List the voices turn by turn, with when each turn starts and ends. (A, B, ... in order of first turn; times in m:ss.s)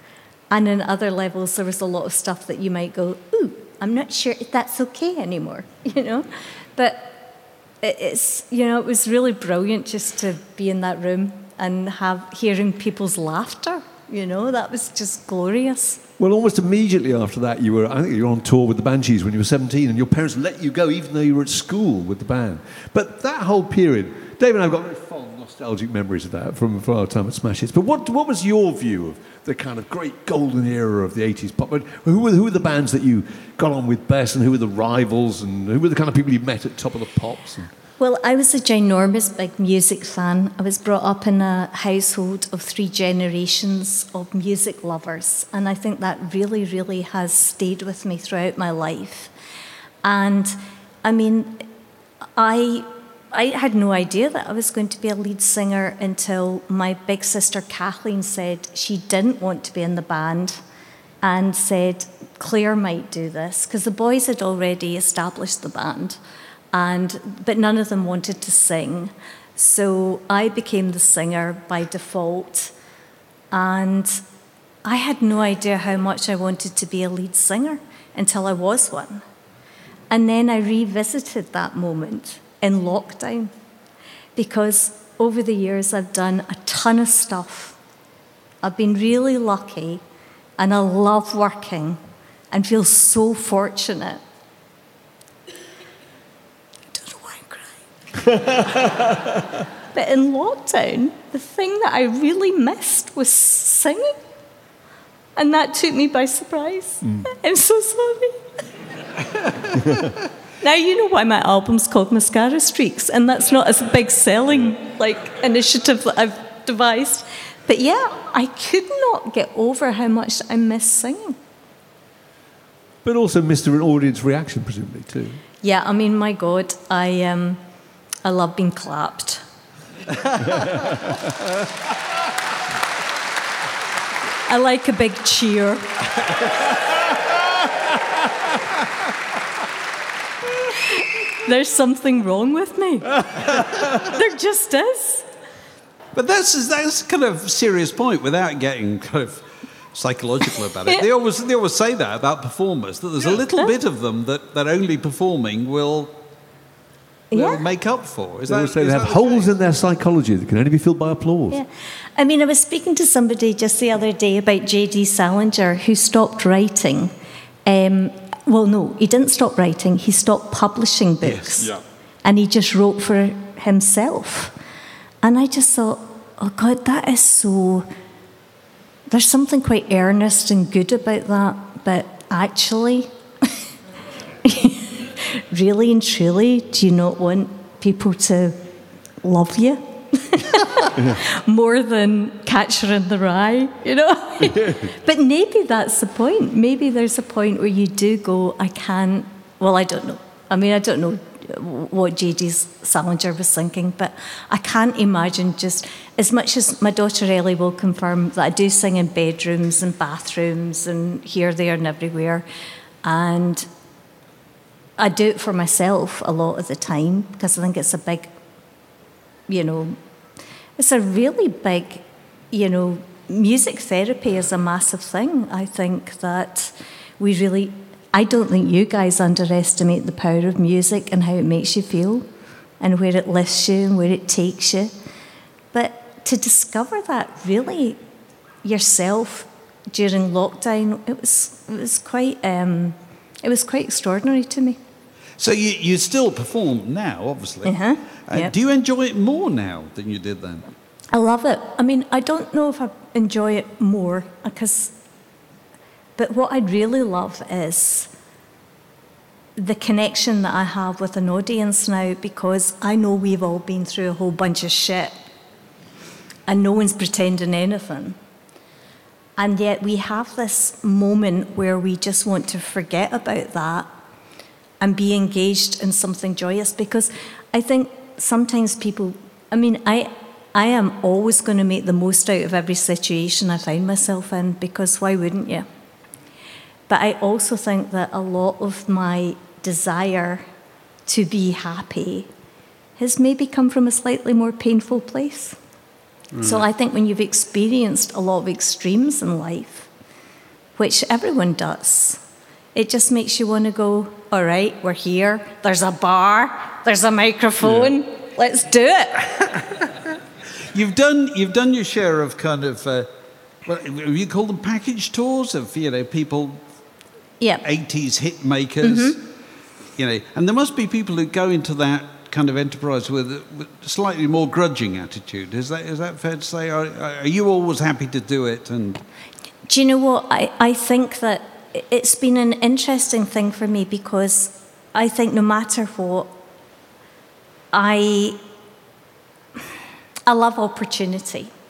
0:00.5-0:07.2 A
0:07.8-0:16.0 A
0:16.2-0:37.7 B
0:38.0-0:49.3 A
0:50.0-0:51.6 A
0:52.4-1:00.6 A
1:01.2-1:06.2 A
1:06.7-1:12.7 A
1:13.5-1:14.2 A
1:14.8-1:19.2 A
1:20.1-1:23.5 A
1:24.4-1:27.8 A
1:28.6-1:30.0 A
1:30.6-1:32.0 A
1:32.5-1:34.2 A
1:36.9-1:38.8 A
1:39.9-1:44.2 A
1:45.4-1:48.4 A
1:50.6-2:01.4 A
2:03.0-2:05.4 B
2:05.6-2:07.6 A
2:08.2-2:09.4 A
2:14.5-2:15.9 A
2:20.9-2:25.3 A
2:26.1-2:36.2 C
2:37.3-2:37.6 A
2:37.3-2:39.5 C
2:38.5-2:41.6 B
2:41.5-2:47.1 A
2:47.7-2:54.5 A
2:51.2-2:51.8 B
2:55.2-2:57.9 A
2:59.1-3:03.5 A
3:04.4-3:08.6 A
3:09.2-3:32.5 A
3:14.4-3:14.8 B
3:33.0-3:33.7 A
3:35.0-3:38.3 A
3:39.5-3:40.0 A
3:40.8-3:52.3 A
3:52.8-3:54.9 A
3:55.7-3:58.0 A
3:58.6-4:04.8 A
4:05.4-4:07.7 C
4:07.6-4:08.5 A
4:08.3-4:10.7 C
4:11.1-4:14.9 A
4:16.2-4:18.1 A
4:19.6-4:25.1 A
4:26.5-4:28.2 A
4:29.4-4:33.9 A
4:34.8-4:45.7 A
4:46.9-4:50.5 A
4:51.1-4:52.3 A
4:53.0-4:55.6 A
4:56.3-4:56.7 C
4:56.4-4:59.9 A
5:00.8-5:02.2 A
5:02.8-5:09.3 A
5:10.7-5:13.1 C
5:13.6-5:16.6 C
5:17.4-5:17.6 A
5:17.6-5:19.2 C
5:18.8-5:19.2 A
5:20.0-5:29.0 C
5:29.7-5:36.3 A
5:37.7-5:38.4 A
5:40.3-5:41.5 A